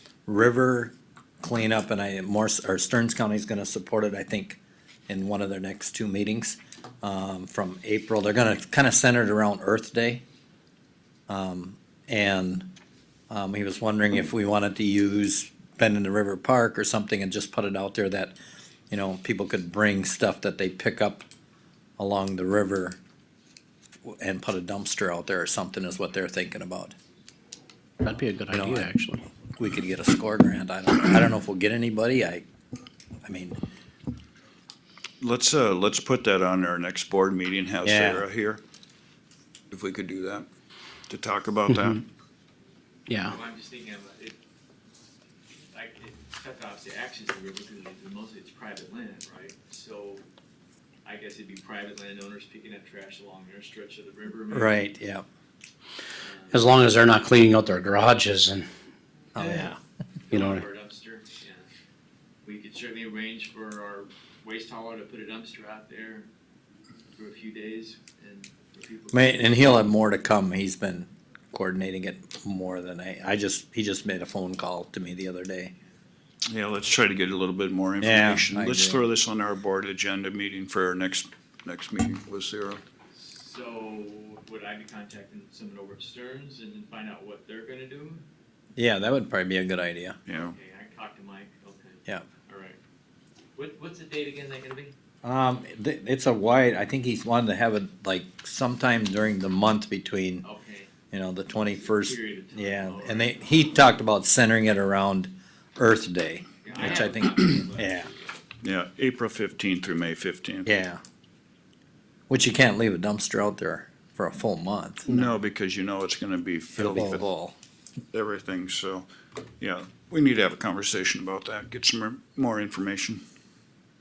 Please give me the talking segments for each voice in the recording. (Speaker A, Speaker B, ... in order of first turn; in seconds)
Speaker A: 0.3-10.2, 11.3-12.7, 13.3-18.3, 18.9-21.2, 22.0-23.0, 24.0-26.9, 28.5-28.9, 29.6-32.4, 33.2-33.6, 37.8-38.2, 54.5-55.2, 59.3-59.8, 69.1-75.7, 78.0-79.0, 88.8-90.2, 95.2-100.4, 101.1-108.1, 110.7-111.0, 112.3-115.2, 116.8-117.6
Speaker B: 28.0-29.2, 41.7-42.0, 43.1-43.4, 56.5-58.7, 60.3-60.6
Speaker C: 35.2-38.6, 39.7-40.5, 41.1-42.0, 76.5-82.8, 90.3-90.5, 108.6-110.7, 115.1-117.2, 118.1-119.0, 119.6-123.2
Speaker D: 43.2-44.4, 45.7-50.2, 51.0-54.8, 56.2-56.7, 60.3-61.7, 62.4-66.3, 67.2-69.7, 83.1-88.2, 90.3-92.8, 93.5-94.9, 100.4-100.9, 101.5-103.9, 106.6-108.4